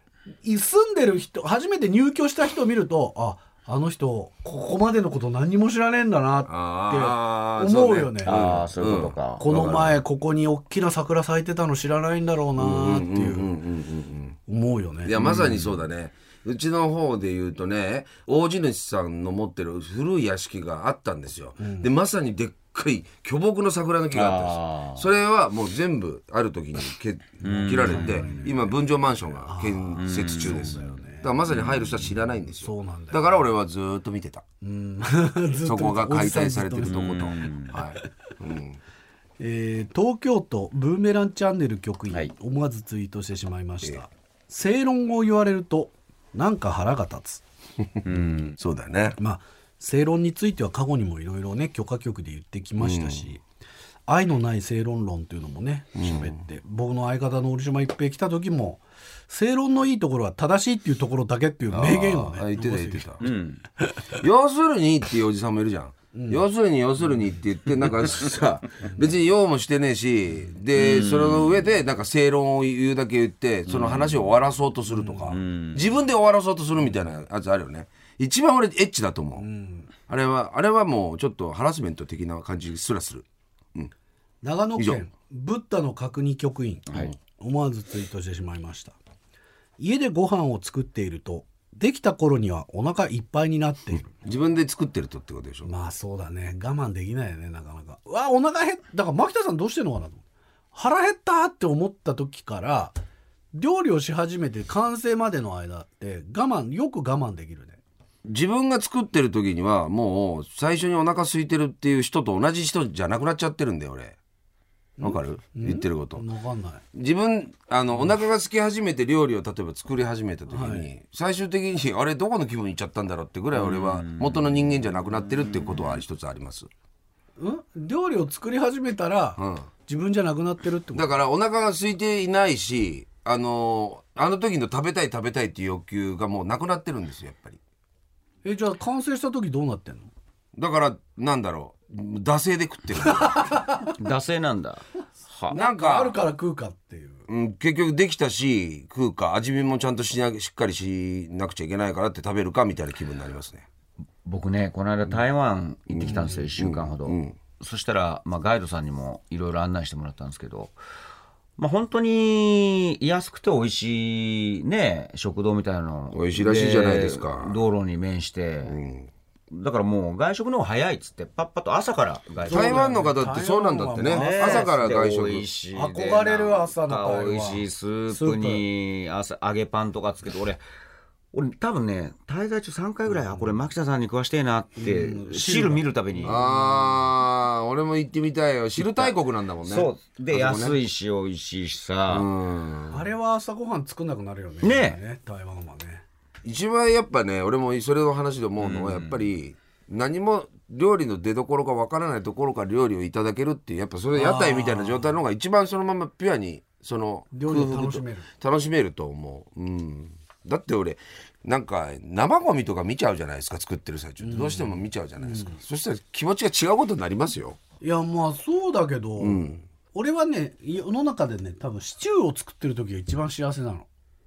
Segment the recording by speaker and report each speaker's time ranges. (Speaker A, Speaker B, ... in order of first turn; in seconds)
Speaker A: 0.4-8.4, 9.4-13.5, 14.5-15.1, 21.6-21.9, 27.6-28.6, 29.4-31.3, 32.6-33.5, 34.6-37.9, 39.4-47.4, 49.2-53.4, 54.1-64.2, 66.1-66.5, 74.9-75.4, 79.4-79.9, 84.4-89.0, 89.8-94.2, 95.7-103.0, 103.5-107.8, 115.0-116.8, 120.5-120.9, 127.4-131.1, 138.4-140.1, 143.2-143.9, 145.5-147.3, 172.4-175.1, 175.7-178.7, 184.8-186.7, 192.9-196.0, 204.1-205.2, 207.3-208.3, 214.2-215.6, 217.8-223.9
Speaker B: 6.5-10.0, 12.6-14.4, 15.0-34.4, 35.6-38.8, 48.6-49.2, 52.8-53.3, 56.0-56.4, 61.7-63.3, 64.2-79.5, 80.1-83.9, 94.2-95.7, 108.3-114.2, 115.0-116.2, 116.9-126.7, 129.4-129.7, 130.9-137.6, 140.6-143.6, 145.5-146.2, 147.3-153.7, 155.9-157.4, 166.1-167.6, 168.7-169.1, 172.4-175.5, 186.2-190.8, 192.1-193.1, 196.4-217.6, 219.2-219.6
Speaker C: 8.2-9.5, 15.2-15.8, 24.1-25.1, 27.4-28.5, 30.0-32.2, 36.8-37.8, 48.1-48.6, 63.2-63.6, 70.7-71.7, 73.7-74.3, 75.3-75.9, 86.9-87.1, 123.5-124.5, 125.3-125.8, 144.0-145.6, 154.2-160.8, 161.6-168.8, 169.5-172.9, 174.0-180.6, 181.3-186.5, 188.8-192.3, 194.6-195.0, 198.6-199.3